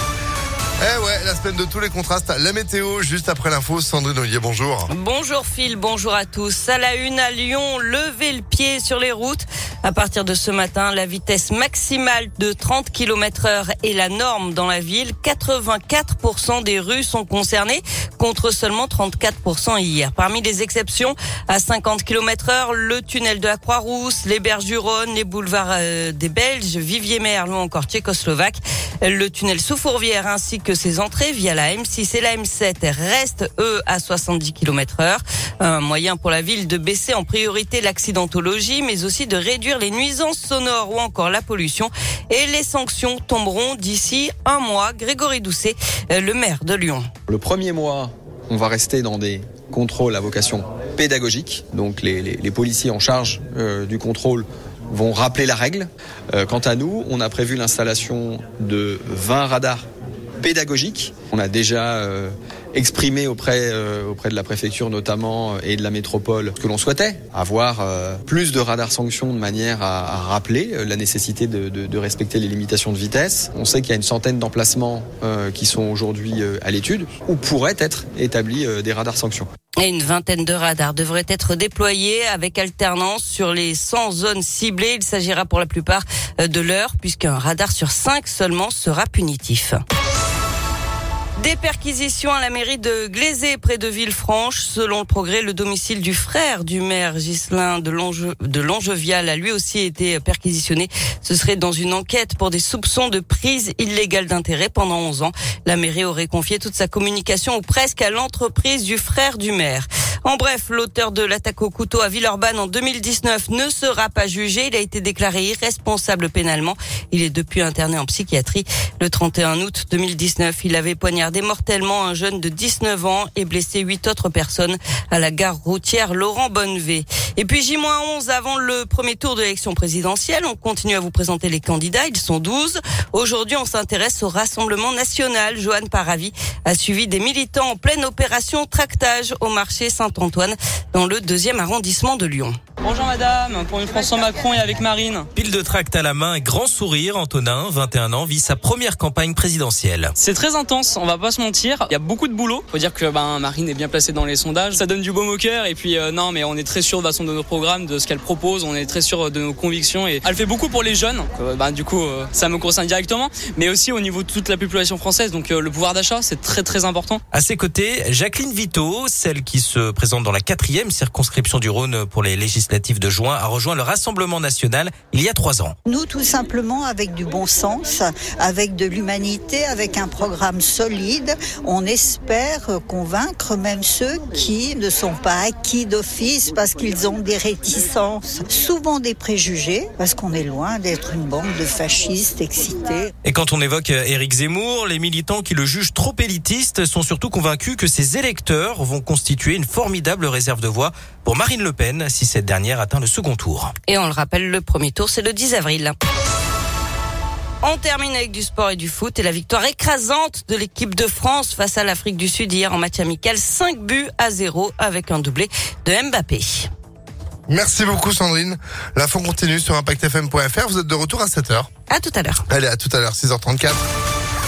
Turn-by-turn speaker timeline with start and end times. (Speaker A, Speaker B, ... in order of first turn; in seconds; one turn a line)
Speaker A: 0.8-4.9
Speaker B: 4.9-47.1
Speaker C: 47.3-59.8
Speaker C: 60.4-79.5
Speaker B: 79.8-89.8
Speaker B: 91.4-142.6
Speaker D: 142.8-145.3
Speaker E: 145.3-150.1
Speaker D: 150.2-167.2
Speaker E: 167.3-175.7
Speaker F: 175.8-193.1
Speaker E: 193.2-203.7
Speaker B: 203.9-205.9
Speaker B: 207.6-216.7
Speaker A: 217.5-221.7
Speaker B: 221.9-222.4
Speaker A: 222.5-223.8